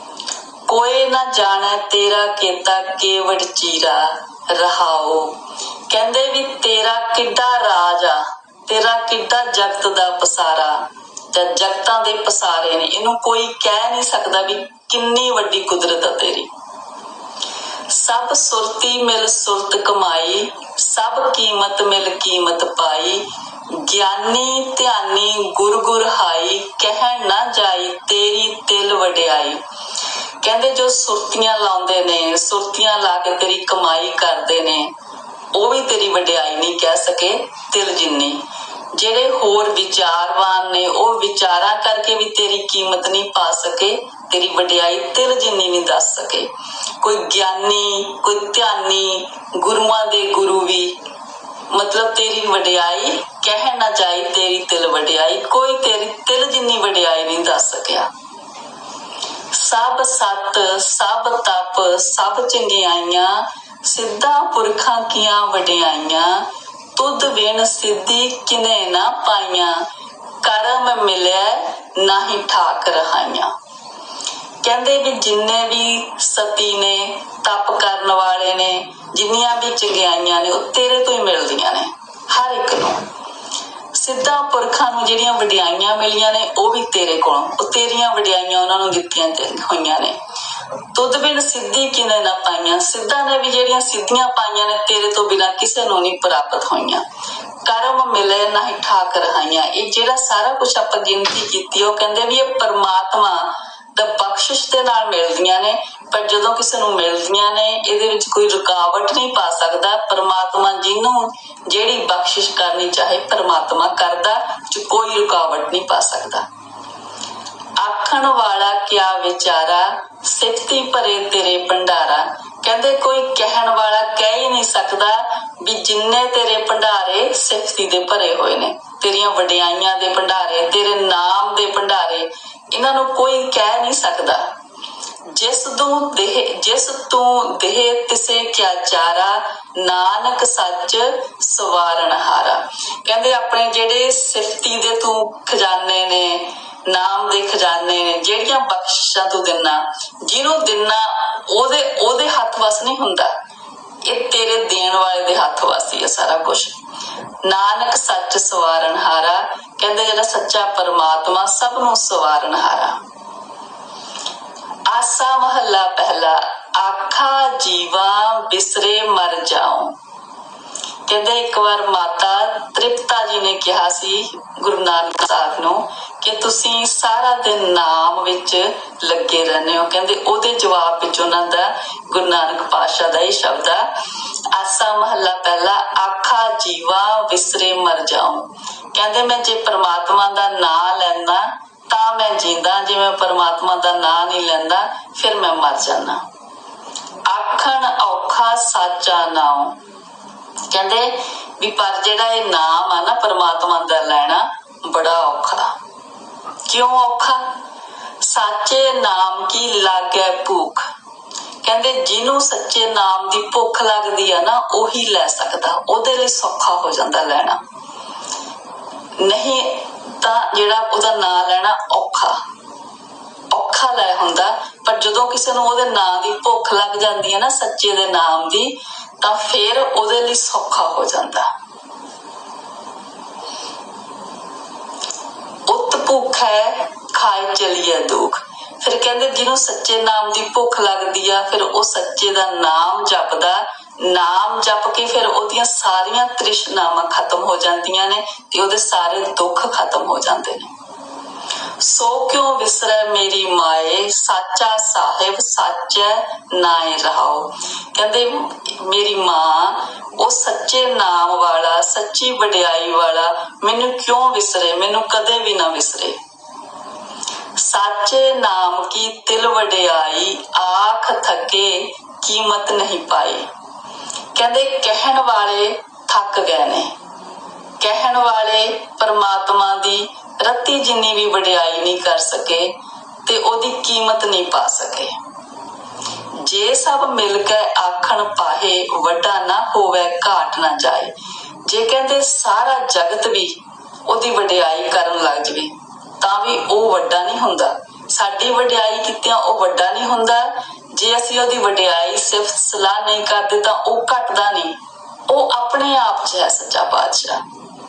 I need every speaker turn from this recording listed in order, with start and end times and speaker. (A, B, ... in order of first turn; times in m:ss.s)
0:00.7-0:05.4 A
0:05.9-0:10.8 A
0:11.3-0:16.5 A
0:17.9-0:29.6 A
0:30.4-0:34.9 A
0:35.5-0:38.4 A
0:38.9-0:46.5 A
0:47.0-0:51.0 A
0:51.7-0:58.1 A
0:59.5-1:09.8 A
1:10.4-1:13.5 A
1:14.6-1:23.0 A
1:23.9-1:30.2 A
1:30.9-1:37.0 A
1:37.6-1:56.4 A
1:57.8-2:14.4 A
2:15.3-2:33.3 A
2:34.0-2:36.8 A
2:37.4-2:43.0 A
2:44.9-2:49.9 A
2:51.1-3:03.9 A
3:04.5-3:16.2 A
3:17.3-3:19.8 A
3:20.7-3:25.7 A
3:26.6-3:27.5 A
3:28.2-3:30.9 A
3:31.6-3:37.6 A
3:39.2-3:42.4 A
3:43.5-3:51.5 A
3:55.7-4:10.7 A
4:11.8-4:26.2 A
4:27.6-4:33.4 A
4:34.3-4:36.9 A
4:37.8-4:42.7 A
4:43.2-4:45.1 A
4:46.4-4:51.1 A
4:51.6-5:04.7 A
5:05.3-5:07.4 A